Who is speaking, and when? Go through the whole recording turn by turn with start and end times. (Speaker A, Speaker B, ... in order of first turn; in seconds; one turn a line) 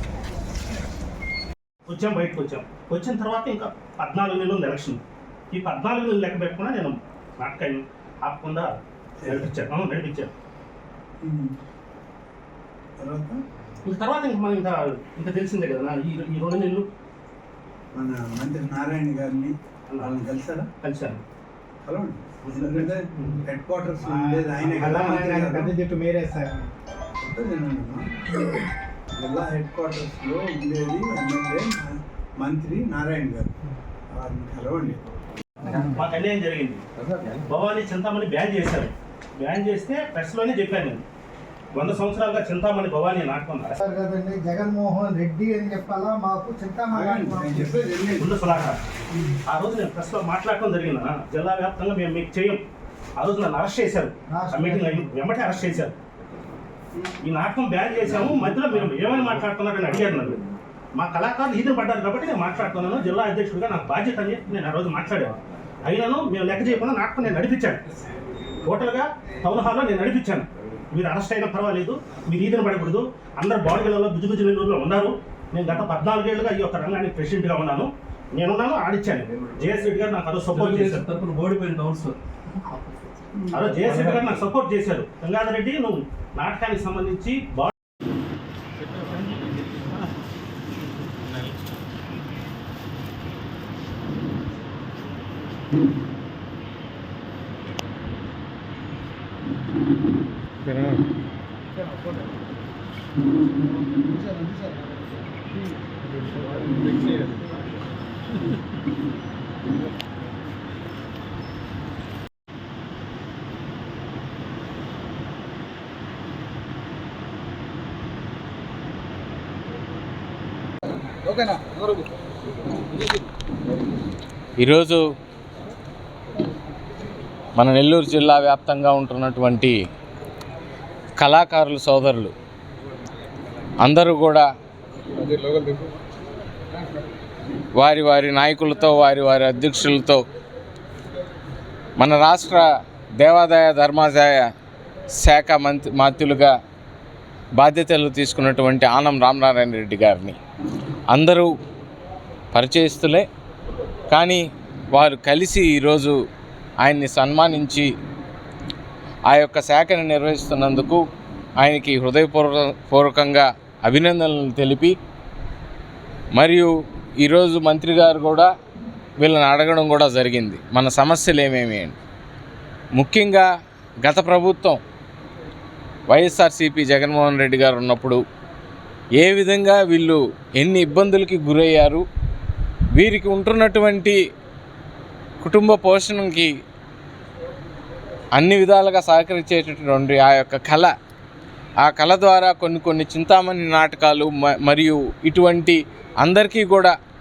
Speaker A: 1.9-10.3
Speaker B: 9.2-9.6
Speaker B: 11.2-11.6
Speaker B: 13.0-13.4
Speaker A: 13.8-16.9
Speaker B: 17.9-20.7
Speaker A: 20.8-21.2
Speaker B: 21.8-25.7
Speaker A: 22.4-23.4
Speaker A: 24.1-25.5
Speaker C: 25.1-26.7
Speaker B: 27.2-28.2
Speaker B: 29.2-33.5
Speaker B: 34.1-35.0
Speaker A: 35.7-36.8
Speaker A: 37.4-41.0
Speaker A: 41.7-43.8
Speaker C: 43.8-47.9
Speaker B: 46.9-48.6
Speaker A: 48.2-48.8
Speaker A: 49.5-52.6
Speaker A: 53.2-56.0
Speaker C: 54.3-55.1
Speaker A: 57.2-60.4
Speaker A: 60.9-67.8
Speaker A: 68.7-81.1
Speaker D: 80.5-82.2
Speaker A: 83.5-87.7
Speaker D: 83.6-84.4
Speaker D: 89.0-89.8
Speaker C: 101.7-102.3
Speaker C: 103.6-107.2
Speaker B: 121.2-121.8
Speaker E: 124.6-125.0
Speaker E: 127.6-129.8
Speaker E: 131.2-132.3
Speaker E: 133.8-134.5
Speaker E: 137.7-140.2
Speaker E: 142.0-142.7
Speaker E: 143.2-144.5
Speaker E: 145.2-146.5
Speaker E: 147.6-150.4
Speaker E: 151.1-151.5
Speaker E: 152.5-153.2
Speaker E: 154.1-156.2
Speaker E: 156.8-157.9
Speaker E: 159.3-161.0
Speaker E: 161.6-165.0
Speaker E: 166.3-166.7
Speaker E: 167.2-168.5
Speaker E: 169.2-172.0
Speaker E: 173.0-173.5
Speaker E: 174.0-174.8
Speaker E: 176.1-178.2
Speaker E: 179.2-182.1
Speaker E: 182.9-184.2
Speaker E: 185.4-186.5
Speaker E: 188.3-190.9
Speaker E: 191.8-196.9